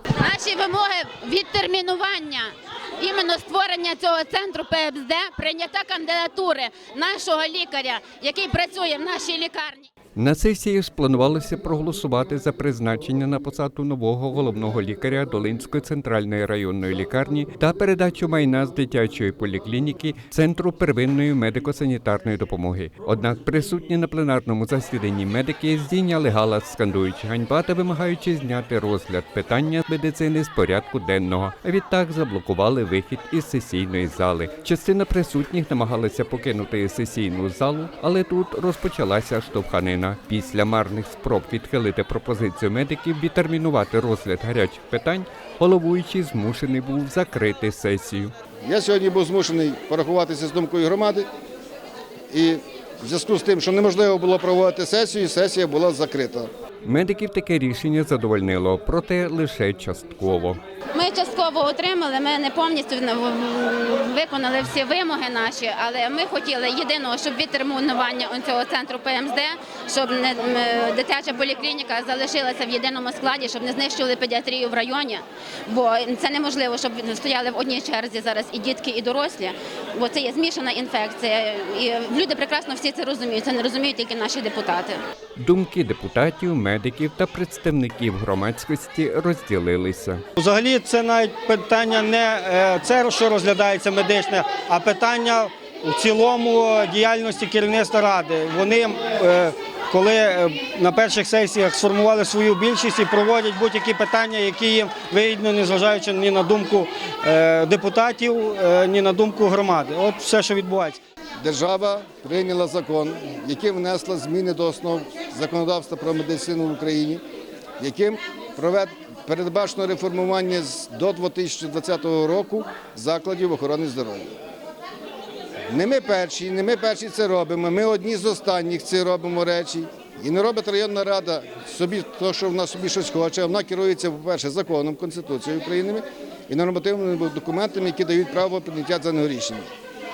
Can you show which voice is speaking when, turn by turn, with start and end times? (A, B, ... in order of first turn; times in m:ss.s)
0:00.2-0:09.9 A
0:10.2-0:48.3 B
0:48.6-0:51.3 C
0:52.3-0:56.5 C
0:56.8-1:00.6 B
1:00.9-1:25.0 A
1:25.4-1:30.2 B
1:30.4-1:51.0 D
1:51.4-1:57.2 C
1:57.8-2:04.3 C
2:05.7-2:19.7 C